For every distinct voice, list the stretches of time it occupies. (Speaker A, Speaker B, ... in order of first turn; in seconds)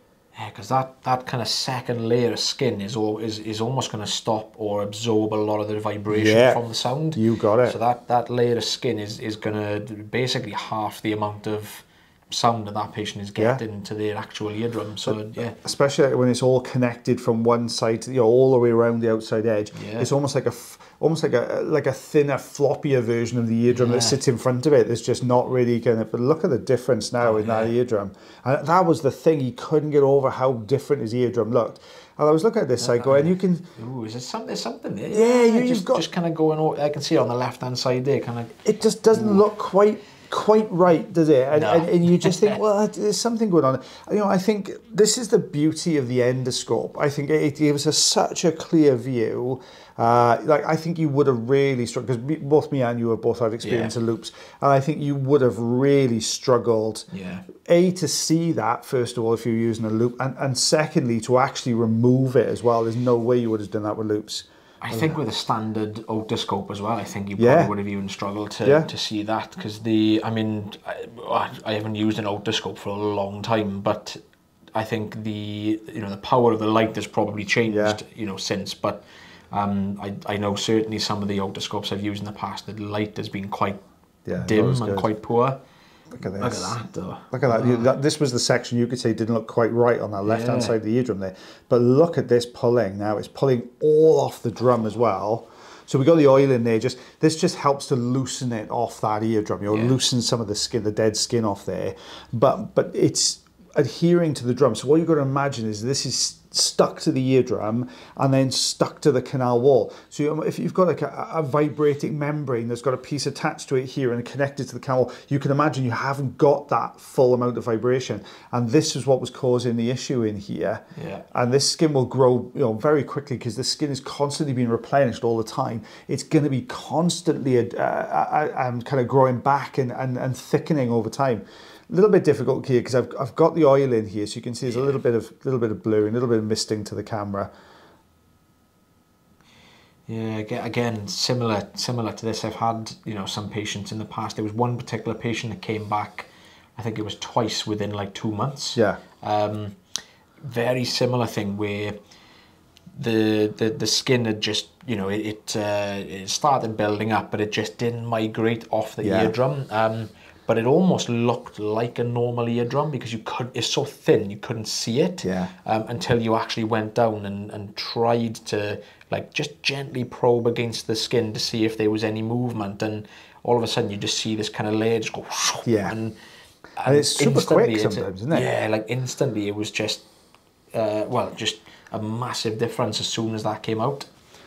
Speaker A: 0.3-15.6, 19.7-20.1, 23.7-24.2, 27.2-27.8, 32.8-38.6, 39.1-39.4, 41.5-42.6, 53.6-54.0, 57.1-57.5, 64.8-74.2, 74.8-83.8, 84.3-85.6, 86.2-87.9, 90.2-90.8, 99.7-100.0, 121.0-121.3, 134.7-135.0, 140.1-149.8, 150.4-152.0, 152.9-176.2, 176.8-180.0, 180.7-184.1
Speaker B: 6.1-6.6, 7.2-7.8, 15.1-33.7, 35.1-36.0, 38.6-57.1, 57.6-65.2, 67.4-67.7, 68.6-68.9, 77.7-78.0, 84.3-85.1, 86.1-86.8, 87.3-137.5, 148.8-149.0, 159.0-159.3, 165.2-165.5, 175.7-176.0, 176.8-178.5